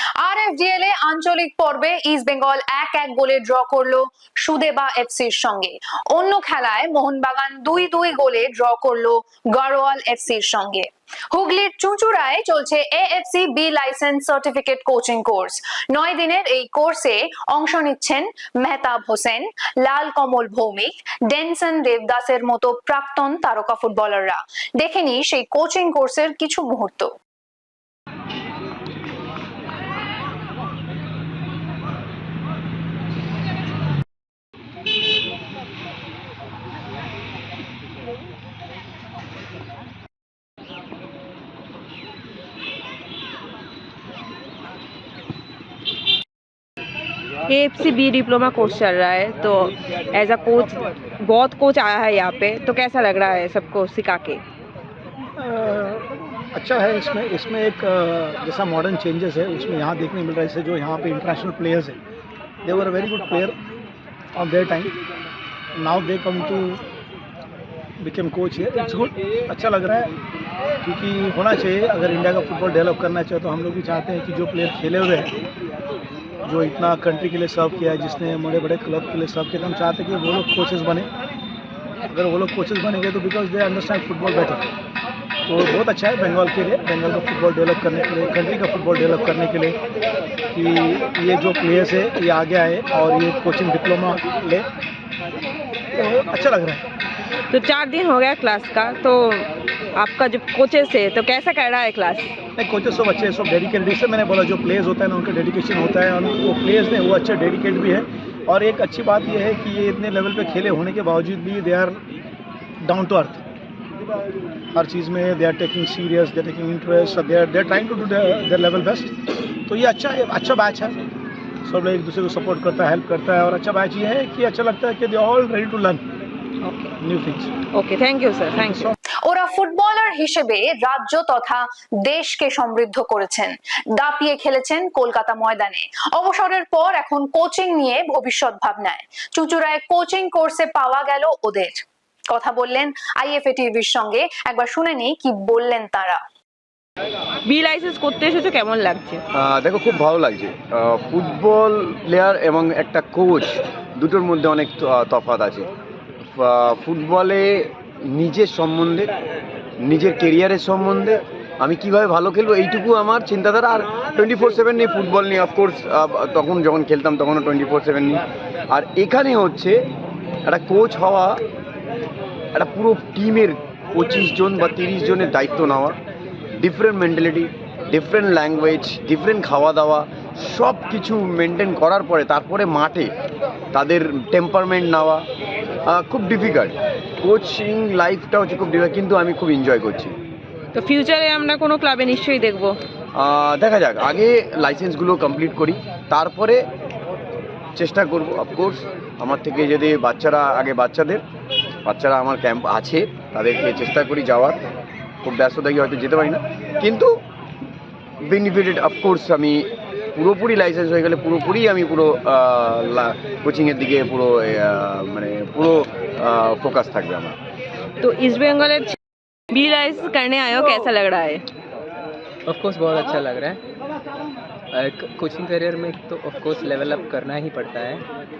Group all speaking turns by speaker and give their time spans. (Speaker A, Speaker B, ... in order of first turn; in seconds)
Speaker A: 0.2-27.1, 129.2-146.2
Speaker B: 47.5-54.4, 97.5-102.3, 127.7-128.9, 147.4-149.2, 190.7-192.8, 218.0-218.9, 219.5-221.4
Speaker C: 55.4-62.0, 62.6-63.5, 64.3-64.9, 65.8-66.8, 68.0-70.1, 70.8-75.3, 76.4-81.1, 82.1-84.6, 85.5-89.8, 90.5-94.7, 96.0-96.8, 102.6-112.0, 112.8-113.4, 114.7-120.9, 121.6-126.0, 127.0-127.5, 128.5-128.9
Speaker D: 149.3-155.7, 156.3-159.1, 159.8-169.8, 170.4-171.4, 172.5-176.0, 176.6-183.1, 183.7-185.2, 185.9-190.2, 193.2-196.6, 197.8-201.2, 201.8-204.6, 205.2-207.2, 208.2-209.6, 210.1-217.4
Speaker E: 222.4-223.6, 224.7-228.0